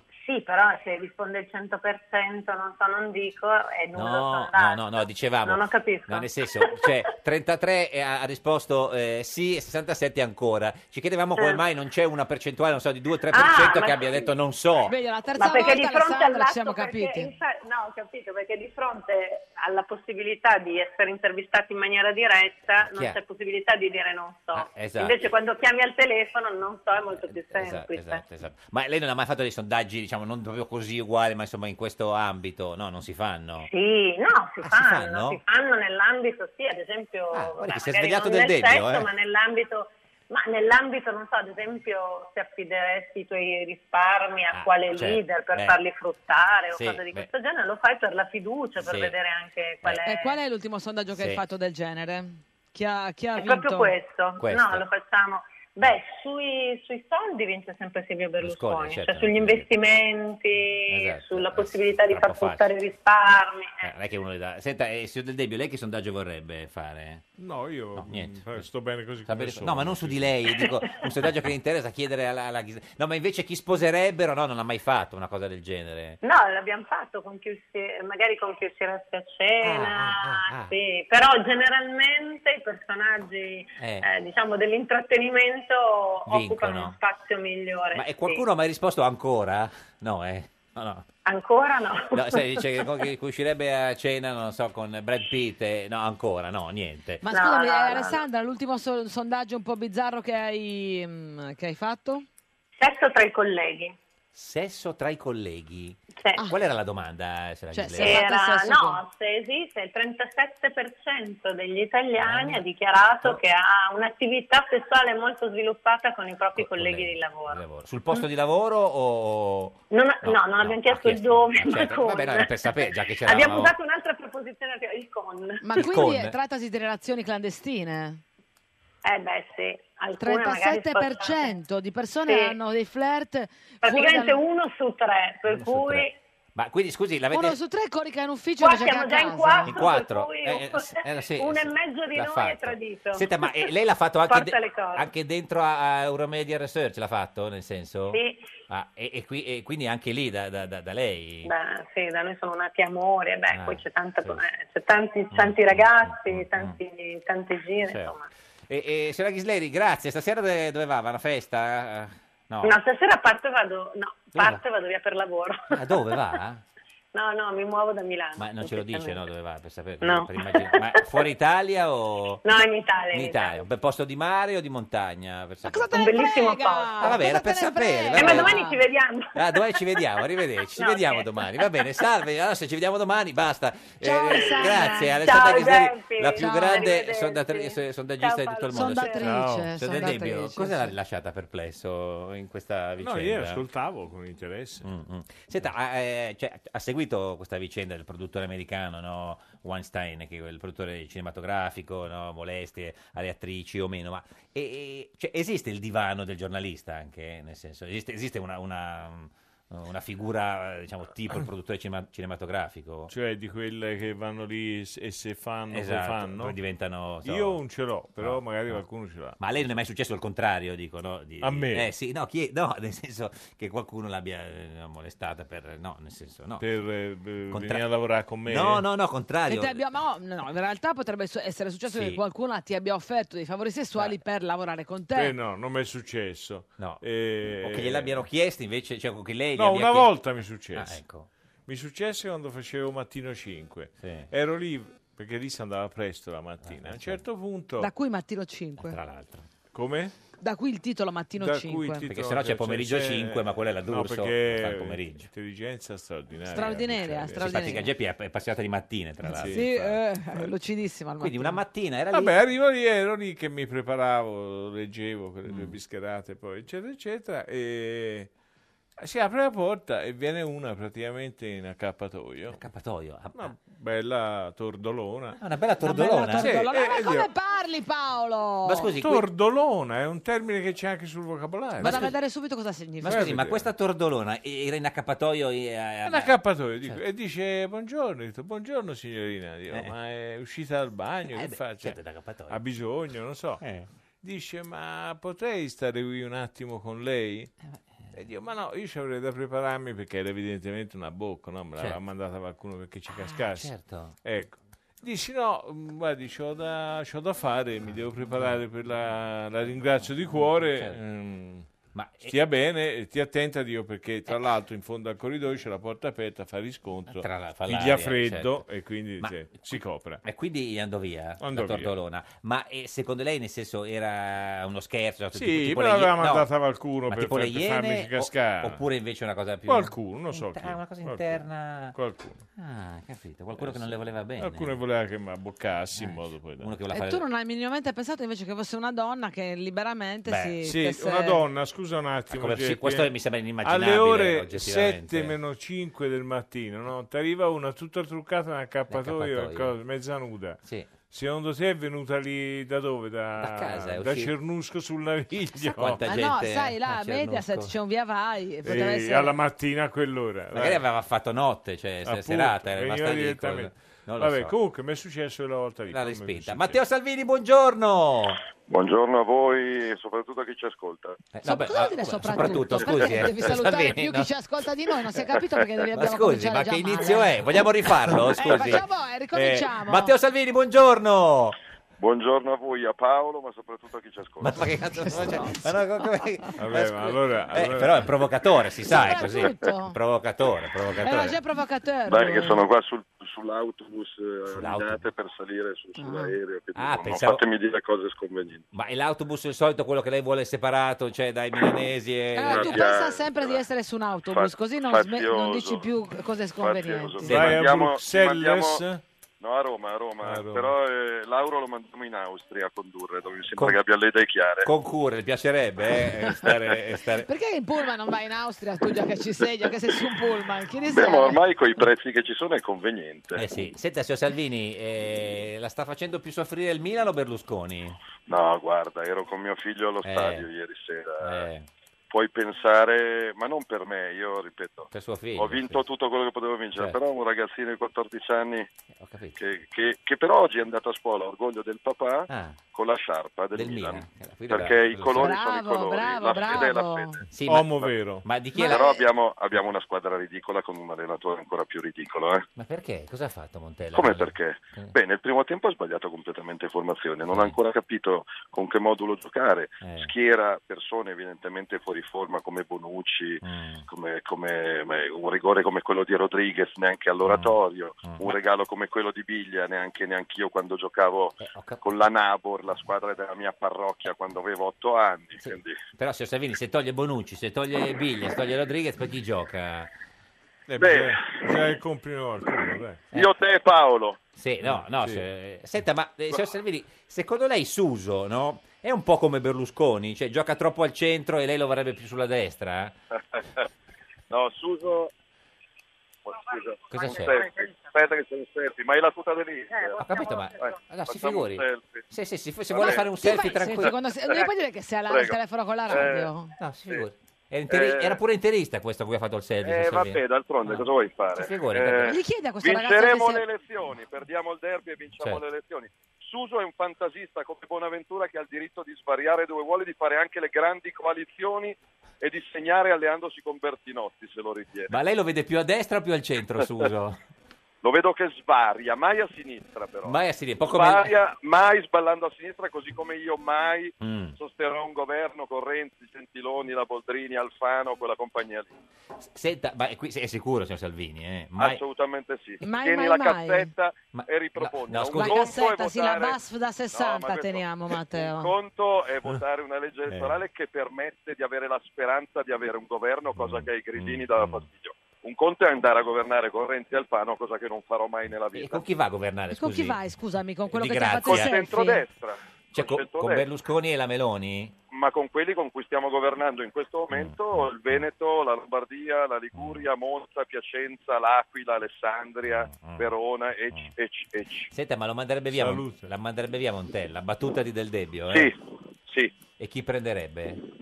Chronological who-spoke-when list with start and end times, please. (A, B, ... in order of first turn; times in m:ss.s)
0:00.2-0:04.9 A
0:03.9-0:14.9 B
0:05.4-0:06.8 A
0:13.3-0:14.3 A
0:14.9-0:17.3 C
0:15.4-0:28.2 A
0:22.8-0:23.2 B
0:24.5-0:25.3 B
0:27.2-0:33.7 B
0:33.6-0:50.4 A
0:34.6-0:35.4 B
0:37.3-0:39.1 B
0:44.5-0:45.8 B
0:46.7-0:47.3 B
0:48.8-0:49.2 B
0:50.0-0:53.9 C
0:51.1-0:51.4 B
0:53.4-1:03.9 A
0:54.4-0:54.8 B
0:58.4-0:59.7 B
1:00.9-1:02.7 B
1:03.8-1:07.2 B
1:07.4-1:10.4 D
1:08.0-1:08.6 B
1:09.2-1:16.2 B
1:16.2-1:28.4 A
1:19.6-1:20.8 B
1:23.8-1:24.1 B
1:26.3-1:27.0 B
1:27.9-1:31.0 B
1:31.2-1:32.6 A
1:32.1-1:37.2 B
1:37.2-1:42.2 C
1:37.3-1:38.2 A
1:42.8-1:44.0 A
1:44.3-1:48.2 B
1:46.2-1:46.4 A
1:47.7-1:49.0 C
1:48.0-1:57.6 A
1:52.2-1:52.6 B
1:56.6-2:03.8 B
1:59.9-2:05.6 A
2:05.6-2:08.2 C
2:05.7-2:06.3 B
2:09.0-2:11.5 A
2:10.2-2:14.4 C
2:12.3-2:12.6 A
2:13.8-2:16.1 A
2:15.5-2:17.6 B
2:17.3-2:19.8 C
2:18.6-2:23.6 A
2:19.6-2:31.5 B
2:24.3-2:25.1 A
2:28.1-2:28.4 A
2:31.4-2:38.3 A
2:33.5-2:34.4 B
2:35.3-2:36.8 B
2:37.8-2:38.2 B
2:38.7-2:42.8 B
2:42.6-2:45.8 A
2:44.3-2:44.6 B
2:45.7-2:46.6 B
2:47.1-2:49.2 A
2:48.4-2:52.4 B
2:50.0-2:50.9 A
2:52.4-2:53.6 A
2:53.1-2:56.0 B
2:55.6-2:58.8 C
2:55.9-2:57.2 A
2:57.0-2:58.6 B
2:58.1-3:00.0 A
2:59.3-3:13.6 B
3:00.8-3:01.6 A
3:04.0-3:05.2 C
3:04.5-3:09.3 A
3:06.3-3:07.0 C
3:08.7-3:10.9 C
3:13.0-3:14.9 D
3:14.8-3:33.1 B
3:33.1-3:36.6 D
3:35.7-3:37.6 B
3:37.2-3:39.4 D
3:38.2-3:38.8 B
3:39.4-3:46.7 B
3:41.4-3:41.9 D
3:46.6-3:48.8 D
3:47.5-3:47.8 B
3:48.4-3:49.8 B
3:49.5-3:55.4 C
3:51.9-3:52.2 B
3:55.1-3:58.2 D
3:56.8-4:01.3 B
3:59.6-4:01.0 D
4:01.6-4:07.9 D
4:04.0-4:04.3 B
4:06.6-4:07.2 B
4:07.8-4:09.0 C
4:08.8-4:09.5 B
4:09.7-4:10.1 D
4:10.4-4:12.0 C
4:11.4-4:17.8 D
4:12.1-4:15.3 B
4:16.5-4:17.9 C
4:17.4-4:19.9 B
4:19.2-4:19.9 D
4:19.4-4:21.6 C
4:21.2-4:22.3 B
4:22.1-4:28.3 D
4:25.4-4:25.8 B
4:29.0-4:32.6 D
4:32.5-4:33.5 B
4:33.3-4:35.4 D
4:35.4-4:36.6 B
4:35.8-4:38.9 C
4:36.3-4:37.3 D
4:38.6-4:39.2 B
4:39.0-4:42.1 D
4:41.8-4:42.1 B
4:41.8-4:43.3 C
4:43.0-4:47.0 B
4:43.0-4:43.7 D
4:46.0-4:53.6 D
4:51.3-4:52.6 B
4:53.6-4:53.9 B
4:54.2-4:57.5 D
4:58.1-5:11.6 D
5:03.1-5:04.2 B
5:10.3-5:11.0 B
5:11.9-5:12.3 B
5:12.2-5:20.2 D
5:17.1-5:18.6 B
5:19.2-5:26.5 B
5:21.4-5:21.9 D
5:25.3-5:28.8 D
5:27.1-5:32.0 B
5:29.6-5:31.4 D
5:31.9-5:32.4 D
5:32.6-5:34.8 B
5:33.6-5:36.7 D
5:35.9-5:37.2 B
5:36.9-5:41.4 C
5:40.2-5:40.6 B
5:40.6-5:56.1 D
5:42.3-5:45.4 B
5:48.9-5:49.7 B
5:50.6-5:50.9 B
5:53.4-5:54.3 B
5:55.5-5:57.7 B
5:55.8-5:59.4 C
5:58.6-6:00.8 D
6:00.5-6:04.5 B
6:02.0-6:06.8 D
6:05.9-6:08.4 B
6:08.7-6:11.2 E
6:11.3-6:14.3 B
6:11.4-6:17.4 C
6:15.9-6:21.6 B
6:18.3-6:20.1 C
6:22.0-6:24.7 E
6:24.4-6:31.4 B
6:26.6-6:28.1 D
6:28.9-6:30.0 C
6:31.0-6:32.6 C
6:32.0-6:38.7 E
6:34.5-6:35.0 B
6:36.0-6:36.3 C
6:36.8-6:37.4 B
6:38.7-6:42.8 B
6:42.3-6:47.3 C
6:42.4-6:43.6 E
6:44.2-6:45.9 E
6:46.6-6:48.8 E
6:47.2-6:49.0 D
6:47.3-6:47.6 B
6:49.4-6:54.7 E
6:50.2-6:50.7 D
6:54.6-6:57.3 B
6:56.5-6:56.7 E
6:57.2-7:01.4 C
7:00.8-7:03.4 E
7:03.4-7:08.0 B
7:08.3-7:11.4 E
7:10.0-7:10.4 B
7:11.2-7:11.7 B
7:12.1-7:18.7 E
7:14.9-7:15.8 B
7:19.0-7:19.4 B
7:19.4-7:27.2 E
7:22.3-7:22.6 B
7:23.5-7:25.4 B
7:25.2-7:27.2 C
7:27.3-7:28.9 B
7:27.4-7:28.2 D
7:28.5-7:28.8 C
7:28.6-7:32.4 E
7:32.6-7:34.9 B
7:33.9-7:55.8 E
7:39.8-7:40.1 B
7:43.4-7:43.8 B
7:47.2-7:48.3 B
7:51.4-7:51.8 B
7:55.4-7:59.9 B
8:00.7-8:03.0 D
8:00.8-8:01.7 E
8:03.1-8:04.2 E
8:04.4-8:13.0 B
8:04.6-8:05.2 D
8:14.3-8:15.1 E
8:16.2-8:20.0 E
8:16.9-8:17.4 B
8:20.0-8:24.0 B
8:20.6-8:22.0 E
8:22.7-8:23.1 E
8:22.8-8:26.5 C
8:23.8-8:24.5 E
8:25.1-8:25.4 E
8:25.9-8:26.3 E
8:26.6-8:30.8 B
8:27.7-8:28.2 E
8:29.6-8:45.0 E
8:31.3-8:32.2 B
8:32.0-8:33.4 C
8:44.9-8:47.2 B
8:47.8-8:58.7 E
8:50.1-8:51.1 B
8:54.0-8:54.4 B
8:59.2-9:01.8 B
9:01.6-9:06.4 E
9:02.6-9:03.7 C
9:04.1-9:05.5 B
9:05.1-9:08.5 C
9:06.9-9:18.8 E
9:10.1-9:10.3 B
9:13.4-9:14.6 B
9:18.5-9:20.0 B
9:19.5-9:22.0 C
9:20.7-9:21.6 B
9:21.2-9:23.5 E
9:22.7-9:24.8 B
9:24.9-9:34.7 E
9:27.1-9:28.0 B
9:29.6-9:29.8 B
9:32.4-9:33.0 B
9:34.7-9:38.5 B
9:35.5-9:36.0 D
9:38.3-9:39.4 E
9:39.6-9:40.6 B